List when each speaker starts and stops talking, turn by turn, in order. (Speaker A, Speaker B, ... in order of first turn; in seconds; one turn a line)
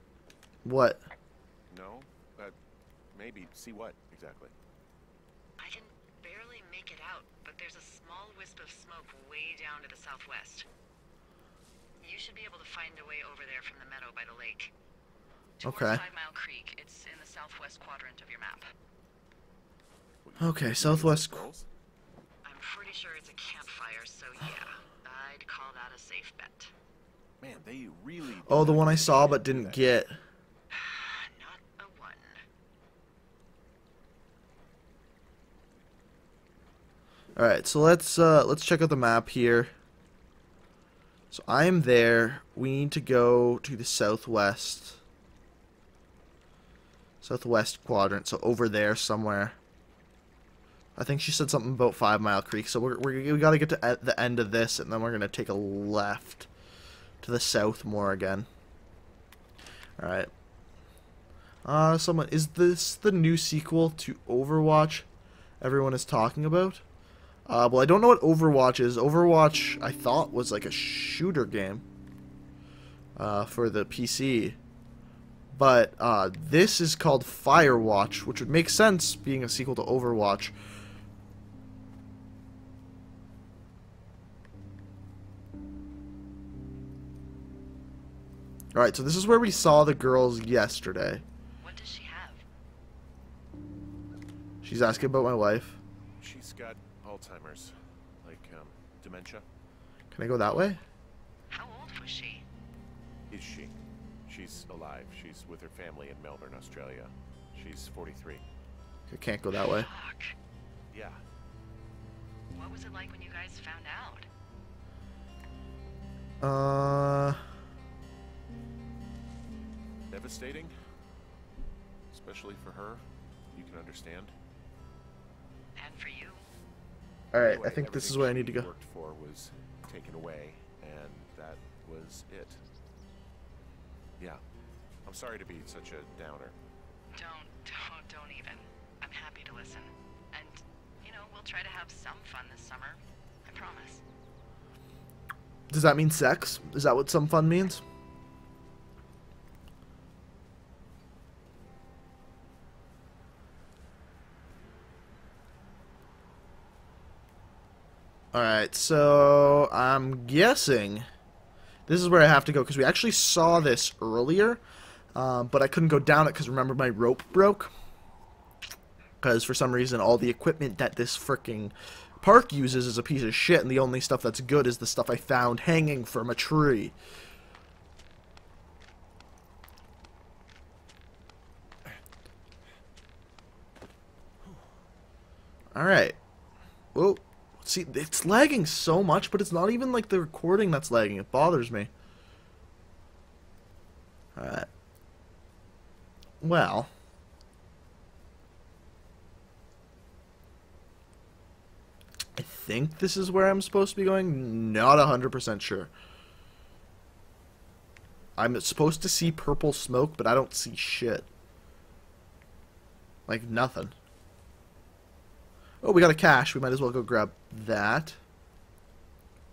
Speaker A: 0.6-1.0
Speaker B: 1.7-2.5
Speaker B: 3.1-4.5
Speaker C: 5.6-10.7
Speaker C: 12.0-14.7
Speaker C: 15.6-18.7
Speaker A: 15.6-16.0
Speaker B: 20.2-21.7
Speaker A: 20.4-21.5
Speaker C: 22.4-26.7
Speaker B: 27.4-30.0
Speaker A: 28.5-30.2
Speaker C: 30.7-32.4
Speaker A: 37.4-39.7
Speaker A: 41.3-45.0
Speaker A: 47.2-49.6
Speaker A: 51.0-56.5
Speaker A: 57.2-58.5
Speaker A: 60.0-60.3
Speaker A: 61.6-65.1
Speaker A: 65.6-66.8
Speaker A: 67.5-71.8
Speaker A: 73.2-74.6
Speaker A: 75.5-80.5
Speaker A: 88.7-91.2
Speaker C: 91.6-92.5
Speaker A: 94.6-95.8
Speaker B: 96.2-99.5
Speaker A: 100.1-100.8
Speaker C: 101.5-102.5
Speaker B: 103.3-103.7
Speaker B: 104.3-108.4
Speaker A: 109.1-109.9
Speaker C: 109.5-110.3
Speaker B: 110.9-111.2
Speaker C: 112.5-114.3
Speaker A: 116.4-117.4
Speaker B: 120.1-120.7
Speaker B: 122.1-124.3
Speaker C: 125.8-126.5
Speaker A: 127.3-128.7
Speaker B: 127.4-132.6
Speaker B: 135.1-136.6
Speaker C: 137.1-144.0
Speaker A: 145.7-147.8
Speaker A: 158.3-161.1
Speaker A: 161.9-164.6
Speaker A: 165.2-167.7
Speaker A: 169.2-176.9
Speaker A: 185.7-186.2
Speaker A: 186.9-191.9
Speaker A: 194.4-194.7
Speaker A: 196.4-196.9
Speaker A: 202.4-205.9
Speaker A: 208.4-211.3
Speaker A: 213.3-213.9
Speaker A: 215.8-218.2